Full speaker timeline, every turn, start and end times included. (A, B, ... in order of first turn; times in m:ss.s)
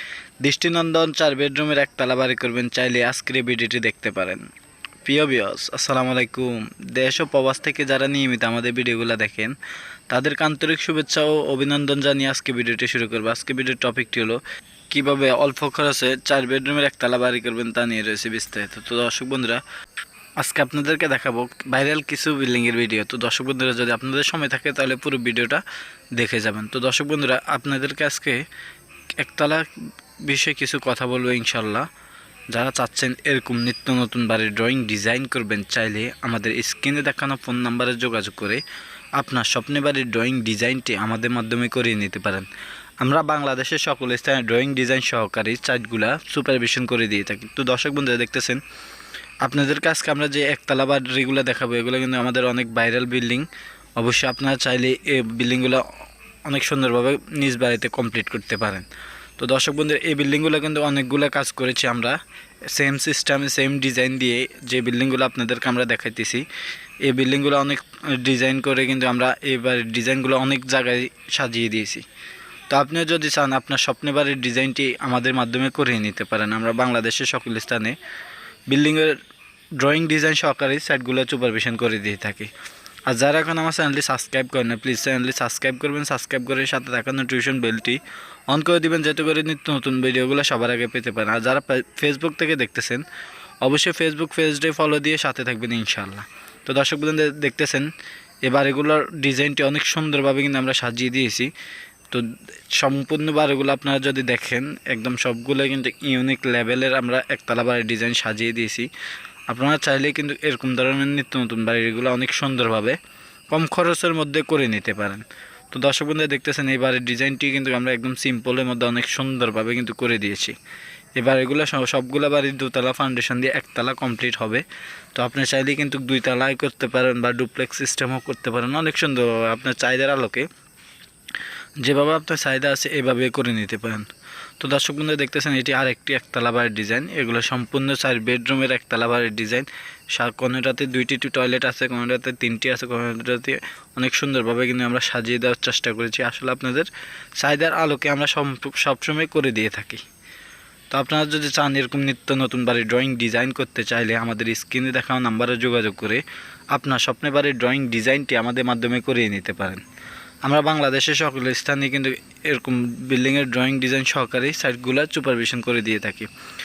0:00.4-0:04.4 A
0:05.0-0:09.5 A
0:10.1-0:14.4 A
0:14.9-0:19.6 A
0:20.4-0:25.6 A
0:26.2-0:28.4 A
0:29.2-0:29.6 A
0:30.2-0:31.9 A
0:32.5-0:38.6 A
0:39.2-0:42.4 A
0:43.0-0:48.6 A
0:49.4-0:55.8 A
0:56.4-0:58.8 A
0:59.4-1:02.2 A
1:02.7-1:06.4 A
1:07.1-1:12.0 A
1:12.7-1:18.0 A
1:18.7-1:19.2 A
1:19.8-1:22.5 A
1:23.1-1:28.0 A
1:28.5-1:33.0 A
1:33.6-1:37.9 A
1:38.4-1:41.5 A
1:42.8-1:48.9 A
1:49.5-1:53.0 A
1:53.5-2:00.5 A
2:01.2-2:04.6 A
2:05.2-2:10.4 A
2:11.8-2:14.1 A
2:14.6-2:26.9 A
2:27.4-2:30.0 A
2:30.9-2:36.2 A
2:36.7-2:39.8 A
2:40.4-2:46.3 A